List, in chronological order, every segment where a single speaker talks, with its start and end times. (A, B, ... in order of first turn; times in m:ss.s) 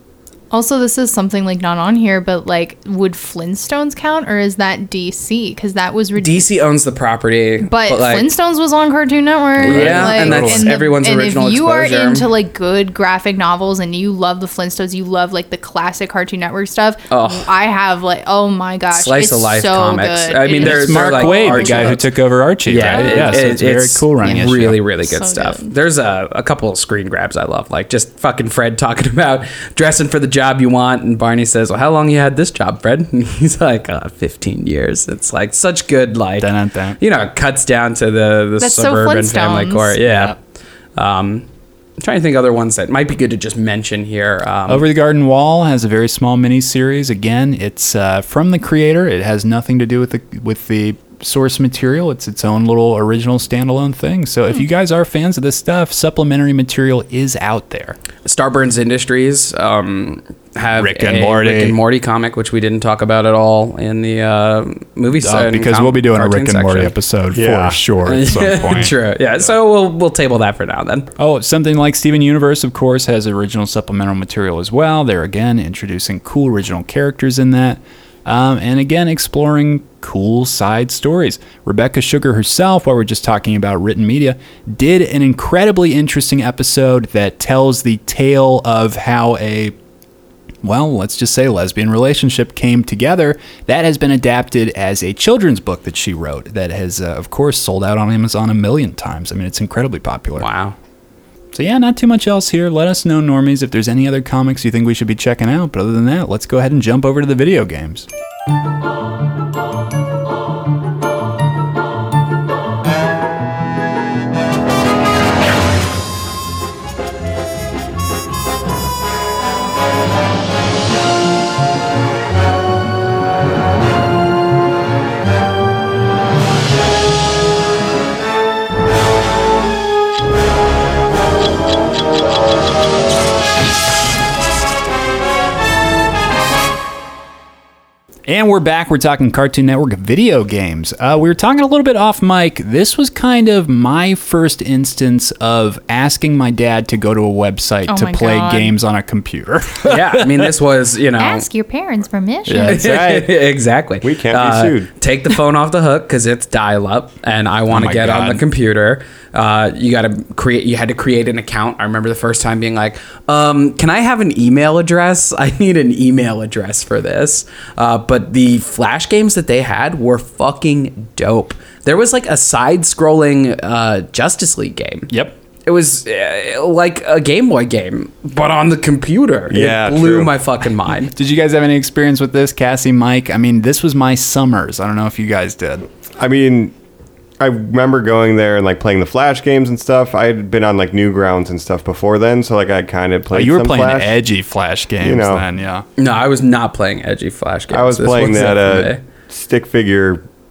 0:00.5-0:06.5 A
0:06.2-0:08.3 B
0:07.6-0:22.0 A
0:09.6-0:10.7 C
0:09.6-0:12.3 B
0:17.1-0:17.5 B
0:18.9-0:22.1 B
0:20.6-0:24.8 C
0:22.6-0:40.4 B
0:22.8-0:23.6 A
0:24.2-0:24.5 A
0:25.0-0:25.7 A
0:36.4-0:37.0 C
0:38.6-0:40.0 A
0:40.1-0:40.3 C
0:41.0-0:41.5 B
0:42.0-0:44.9 B
0:44.7-0:58.0 C
0:58.2-1:06.9 B
1:00.7-1:01.8 C
1:05.2-1:09.0 C
1:07.3-1:07.8 D
1:08.0-1:11.1 B
1:11.2-1:29.7 C
1:30.6-1:40.5 C
1:40.4-1:40.7 B
1:41.5-1:48.0 C
2:18.3-2:30.5 C
2:27.9-2:28.7 A
2:29.8-2:31.5 B
2:31.2-2:32.8 A
2:32.4-2:33.3 C
2:32.6-2:55.1 B
2:32.7-2:33.3 D
2:34.0-2:34.9 D
2:37.7-2:38.4 C
2:55.1-2:55.4 C
2:55.6-3:01.1 B
2:59.5-3:00.3 D
3:01.0-3:05.9 C
3:06.2-3:06.7 D
3:07.4-3:14.2 D
3:13.3-3:15.8 C
3:15.0-3:15.4 D
3:16.0-3:19.0 B
3:17.7-3:20.2 D